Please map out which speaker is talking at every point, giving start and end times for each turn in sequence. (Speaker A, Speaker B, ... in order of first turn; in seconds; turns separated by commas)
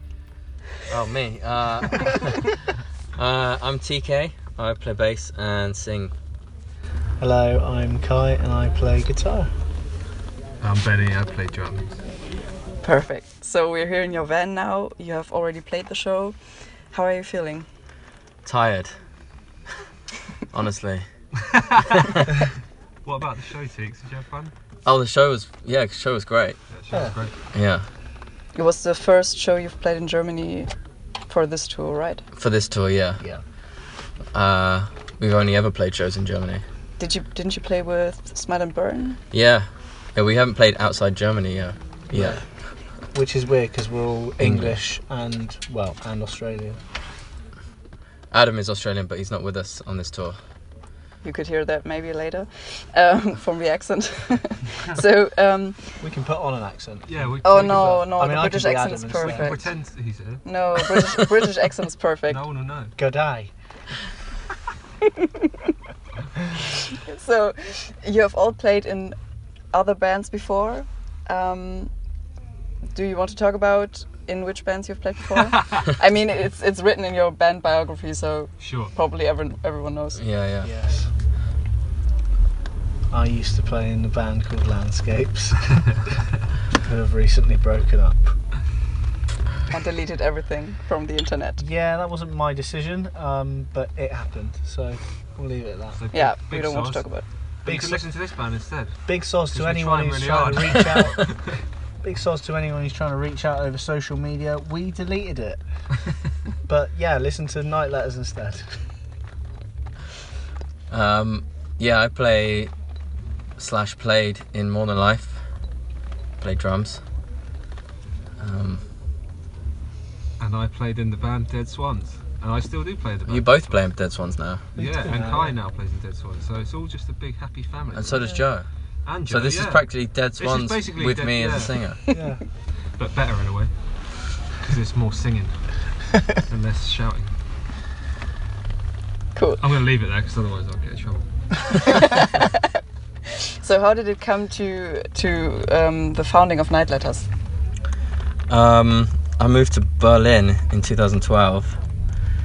Speaker A: 0.9-2.6, Speaker A: 3.1-6.1, Speaker B: 7.2-9.5, Speaker C: 10.6-12.0, Speaker D: 12.8-16.4, Speaker D: 16.9-17.7, Speaker A: 18.4-18.9, Speaker A: 20.5-21.1, Speaker C: 21.5-22.1, Speaker C: 23.1-24.5, Speaker A: 24.9-26.6, Speaker C: 26.7-27.4, Speaker A: 27.5-27.9, Speaker D: 28.6-30.7, Speaker D: 31.3-32.2, Speaker A: 32.4-33.2, Speaker A: 34.3-36.6, Speaker D: 37.0-39.2, Speaker A: 39.3-42.5, Speaker B: 42.1-42.4, Speaker B: 43.1-46.8, Speaker A: 44.4-44.8, Speaker A: 48.3-50.4, Speaker D: 51.2-56.0, Speaker B: 56.0-59.6, Speaker C: 57.1-58.1, Speaker D: 57.4-59.7, Speaker C: 59.2-60.5, Speaker D: 60.4-62.4, Speaker C: 62.3-62.9, Speaker B: 63.0-63.5, Speaker D: 65.2-65.5, Speaker C: 66.2-66.4, Speaker D: 66.9-69.2, Speaker D: 69.7-71.9, Speaker D: 72.9-80.2, Speaker C: 78.6-78.9, Speaker A: 80.1-80.7, Speaker B: 80.6-81.1, Speaker B: 83.1-85.8, Speaker B: 86.8-88.3, Speaker D: 89.7-91.6, Speaker B: 91.6-96.0, Speaker C: 95.9-97.1, Speaker D: 96.1-97.2, Speaker C: 97.7-99.0, Speaker B: 97.7-98.0, Speaker B: 99.1-101.2, Speaker C: 99.5-101.6, Speaker B: 102.0-105.6, Speaker B: 106.7-108.7, Speaker A: 110.9-112.7, Speaker A: 113.6-115.4, Speaker A: 116.4-117.0, Speaker A: 118.4-118.8, Speaker C: 120.4-123.8, Speaker A: 123.3-124.7, Speaker B: 124.8-125.6, Speaker C: 124.8-128.3, Speaker A: 127.9-128.7, Speaker B: 128.2-128.4, Speaker C: 129.1-129.8, Speaker A: 129.3-132.0, Speaker C: 130.4-131.8, Speaker B: 132.1-132.4, Speaker C: 133.0-133.7, Speaker C: 134.6-135.7, Speaker C: 136.5-137.3, Speaker D: 139.3-139.6, Speaker C: 139.6-142.3, Speaker D: 141.8-142.6, Speaker D: 143.6-147.3, Speaker A: 148.5-151.8